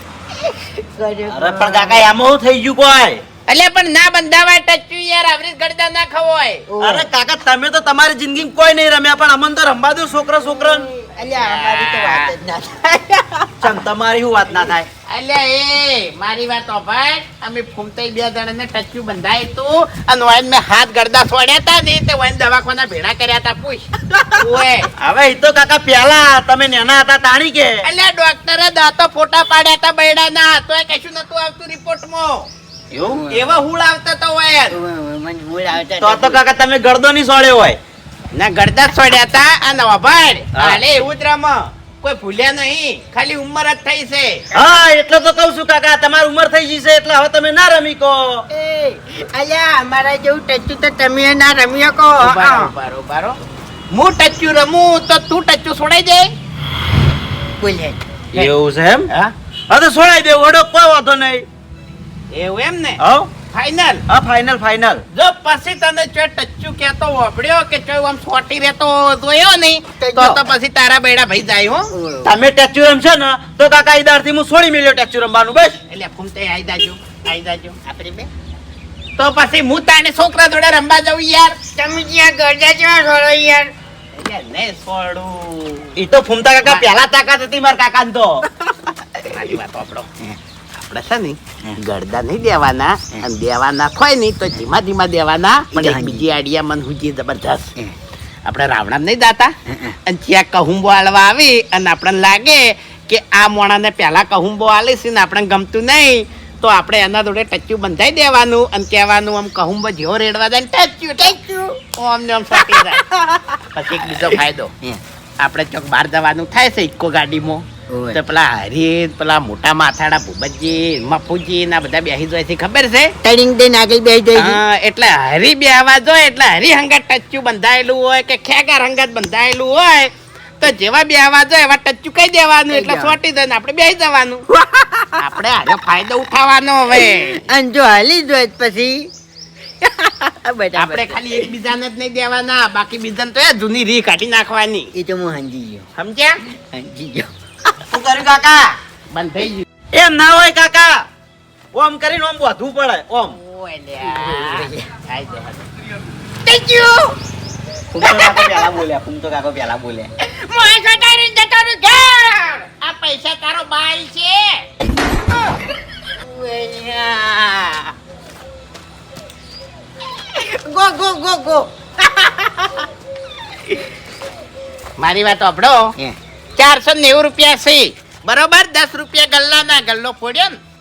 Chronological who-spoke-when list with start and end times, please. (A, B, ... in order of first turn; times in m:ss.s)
0:00.4-0:02.0 A
0:01.3-0:03.2 B
0:03.5-0:06.6 C
0:06.7-0:07.1 A
0:06.8-0:10.9 B
0:10.4-0:13.8 A
0:11.4-0:12.3 C
0:13.6-0:14.9 B
0:15.1-0:24.9 C
0:25.0-0:27.8 B
0:27.8-0:32.5 C
0:32.9-0:33.2 B
0:33.1-0:33.5 A
0:33.3-0:34.8 C
0:34.7-0:36.4 A
0:36.0-0:37.8 B
0:38.3-0:44.4 C
0:44.5-0:48.4 B
0:48.5-0:52.7 A
0:52.2-0:53.4 C
0:53.9-0:56.3 C
0:57.6-0:58.0 A
0:58.3-0:59.1 B
0:59.7-1:01.4 B
1:02.3-1:03.0 C
1:03.0-1:03.3 B
1:03.5-1:04.0 C
1:04.1-1:05.0 B
1:05.1-1:11.9 C
1:10.0-1:10.4 A
1:11.9-1:12.3 A
1:12.2-1:15.8 B
1:15.9-1:17.8 C
1:17.8-1:18.3 A
1:19.2-1:21.6 C
1:21.8-1:23.7 A
1:24.1-1:26.0 C
1:26.0-1:28.4 B
1:29.2-1:30.1 C
1:30.8-1:37.7 C
1:35.7-1:36.2 A
1:38.4-1:39.5 C
1:39.7-1:40.0 A
1:40.0-1:51.4 C
1:51.2-1:51.8 A
1:51.9-1:53.0 C
1:52.5-1:53.6 A
1:53.8-1:54.7 C
1:54.1-1:55.0 A
1:55.4-2:03.1 C
1:57.9-1:58.2 A
2:03.2-2:04.6 A
2:04.3-2:14.4 C
2:12.7-2:13.2 A
2:14.5-2:15.1 A
2:15.2-2:17.4 C
2:17.1-2:19.1 A
2:19.8-2:21.5 A
2:20.8-2:24.9 C
2:25.0-2:25.8 A
2:26.0-2:26.4 C
2:26.5-2:27.8 A
2:27.9-2:28.8 B
2:29.1-2:29.6 C
2:29.9-2:31.0 B
2:31.7-2:33.4 B
2:33.3-2:35.7 C
2:34.0-2:34.9 A
2:36.4-2:37.1 A
2:37.9-2:40.1 B
2:38.0-2:38.7 A
2:40.2-2:42.6 A
2:42.8-2:44.6 C
2:46.0-2:47.9 A
2:50.3-2:52.9 A
2:55.0-2:55.9 C
2:56.6-3:00.6 C